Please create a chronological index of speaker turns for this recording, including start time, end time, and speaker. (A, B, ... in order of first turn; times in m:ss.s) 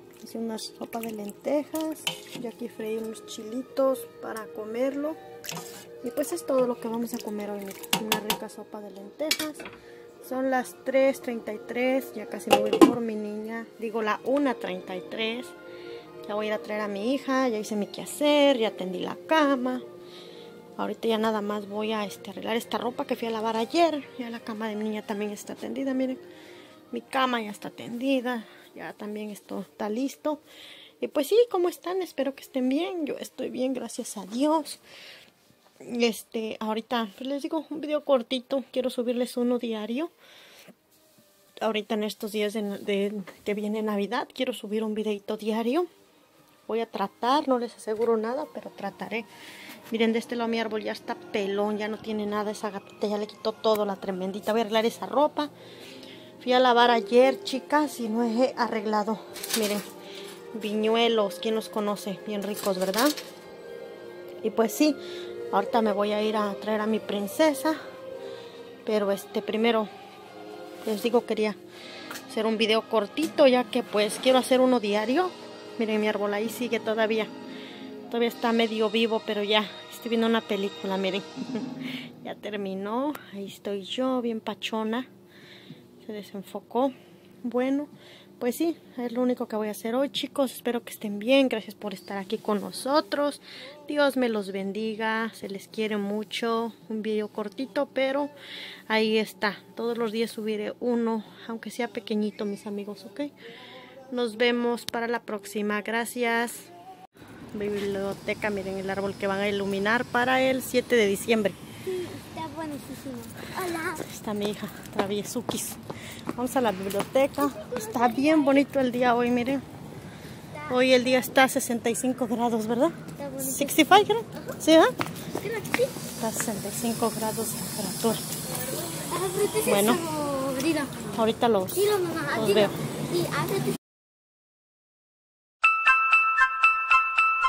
0:00.2-0:05.2 A
0:06.0-0:09.7 A
0:10.2-0:15.5 A
0:16.2-0:19.8 A
0:20.8-0:26.2 A
0:26.9-0:30.4 A
0:31.0-0:34.8 A
0:35.8-0:40.1 A
0:41.6-0:45.9 A
0:46.7-0:49.3 A
0:49.9-0:55.5 A
0:56.4-0:59.8 A
1:00.5-1:03.1 A
1:04.4-1:05.0 A
1:05.5-1:07.8 A
1:08.8-1:09.9 A
1:10.8-1:11.6 A
1:12.3-1:17.3 A
1:18.1-1:25.1 A
1:26.0-1:38.3 A
1:38.9-1:43.3 A
1:44.1-1:46.7 A
1:47.5-1:51.6 A
1:51.8-1:54.0 B
1:53.9-1:55.8 A
1:56.3-1:59.6 A
1:57.5-1:58.6 B
2:00.6-2:05.0 A
2:03.2-2:03.9 B
2:05.4-2:05.9 B
2:06.0-2:08.4 A
2:08.9-2:11.1 B
2:09.6-2:10.0 A
2:11.0-2:12.8 A
2:11.8-2:13.8 B